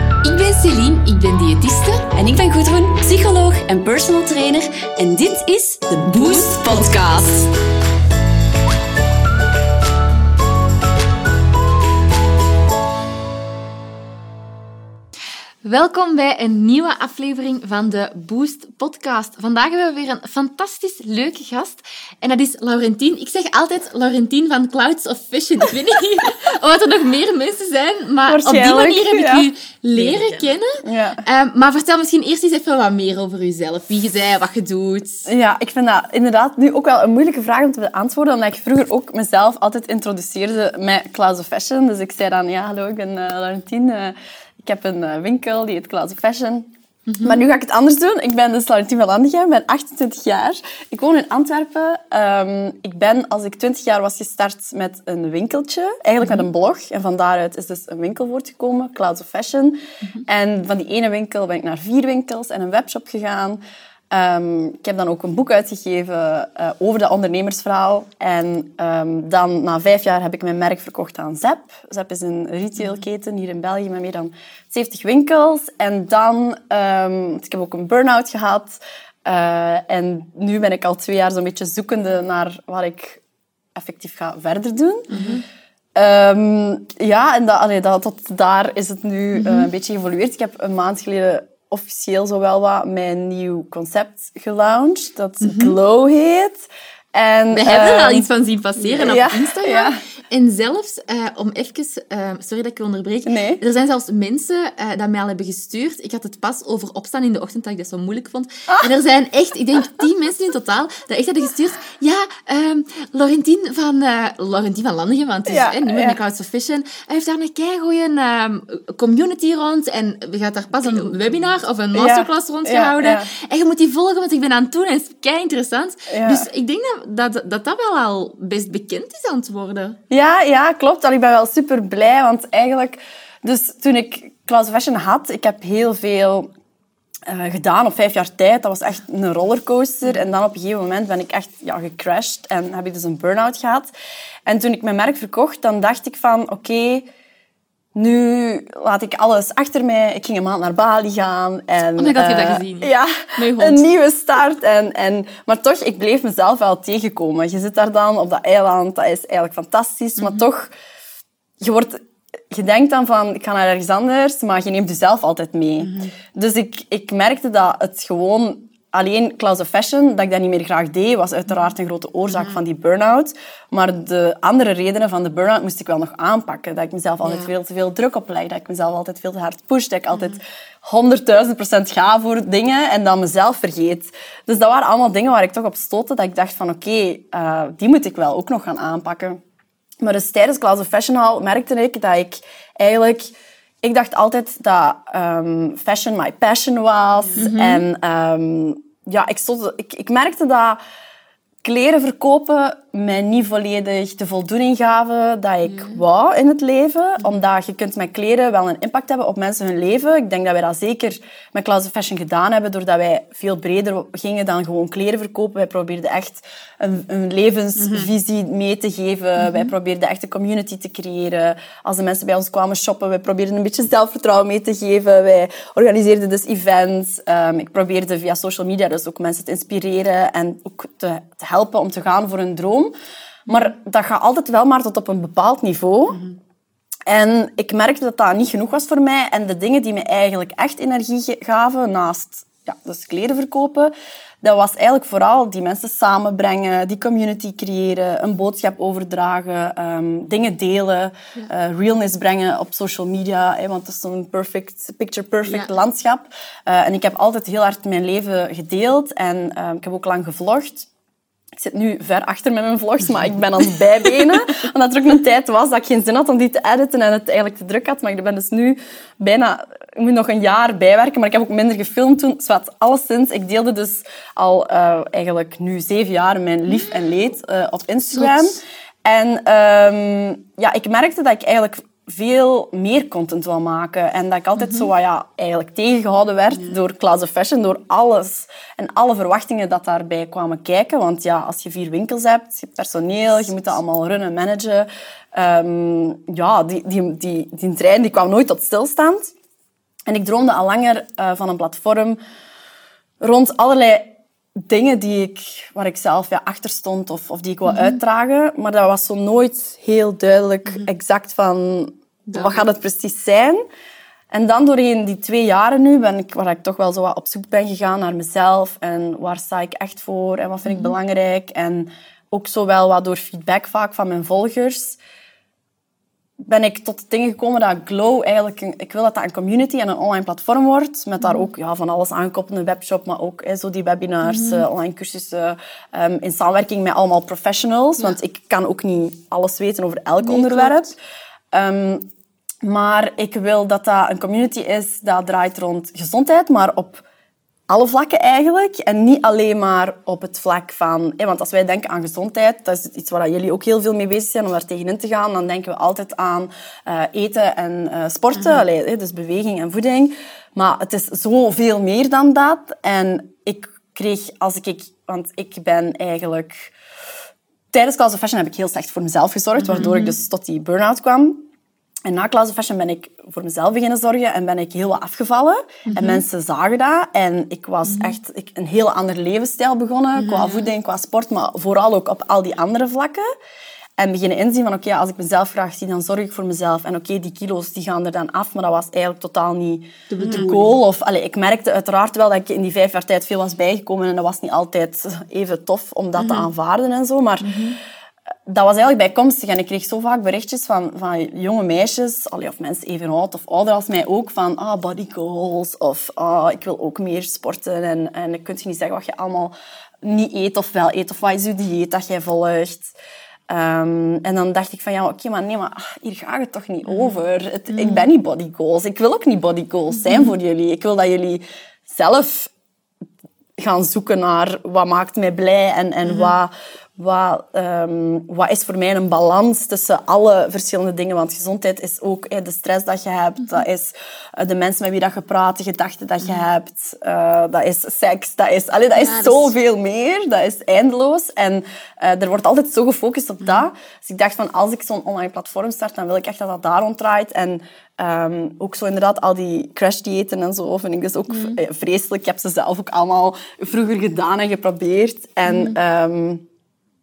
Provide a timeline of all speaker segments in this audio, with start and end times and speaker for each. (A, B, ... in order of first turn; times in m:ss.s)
0:00.2-0:02.1 A
0:02.1-0:07.5 B
0:06.1-0:07.2 A
0:15.6-0:35.3 A
0:28.3-0:29.4 C
0:29.9-0:30.5 B
0:30.8-0:31.2 C
0:35.2-1:23.2 C
0:47.1-0:47.4 A
1:23.7-1:25.2 C
1:25.1-1:25.4 A
1:26.0-1:38.3 C
1:29.3-1:29.7 A
1:35.4-1:35.7 A
1:37.5-2:10.0 A
1:39.0-1:40.0 C
1:43.2-1:43.6 C
1:55.5-1:56.2 C
2:00.8-2:01.5 B
2:01.9-2:03.3 C
2:06.1-2:06.5 C
2:10.1-2:16.5 C
2:17.3-2:23.9 C
2:24.4-2:27.1 C
2:27.9-2:40.7 C
2:32.0-2:33.9 A
2:40.2-2:40.4 A
2:41.6-3:09.4 C
2:45.8-2:46.1 B
2:52.3-2:52.6 B
2:57.2-2:57.5 A
3:10.0-3:20.8 C
3:17.2-3:17.5 B
3:17.4-3:17.8 A
3:21.6-3:52.9 C
3:25.6-3:26.0 A
3:37.8-3:38.1 B
3:39.4-3:39.7 A
3:53.5-3:56.2 C
3:57.1-4:20.9 C
4:15.5-4:15.7 A
4:21.6-4:59.3 C
4:38.1-4:38.4 A
4:44.6-4:44.9 A
5:00.1-5:02.2 C
5:03.2-5:13.6 C
5:07.6-5:08.0 A
5:12.3-5:12.6 A
5:14.3-5:25.0 C
5:20.6-5:20.9 A
5:26.4-5:40.9 C
5:31.2-5:31.5 A
5:34.2-5:34.6 A
5:40.2-5:40.9 A
5:41.5-5:42.1 C
5:42.6-5:47.0 C
5:47.7-6:06.7 C
6:07.7-6:11.4 C
6:09.6-6:10.2 A
6:12.0-6:23.2 C
6:15.8-6:16.2 A
6:17.8-6:18.2 A
6:20.2-6:20.7 A
6:24.0-6:37.6 C
6:30.1-6:30.8 A
6:30.2-6:30.5 B
6:36.2-6:36.5 A
6:37.4-6:37.8 A
6:38.5-6:52.9 C
6:53.5-7:02.5 C
6:57.7-6:58.0 A
6:59.9-7:00.3 A
7:03.6-7:36.4 C
7:18.9-7:19.5 A
7:31.3-7:31.6 A
7:35.4-7:35.8 A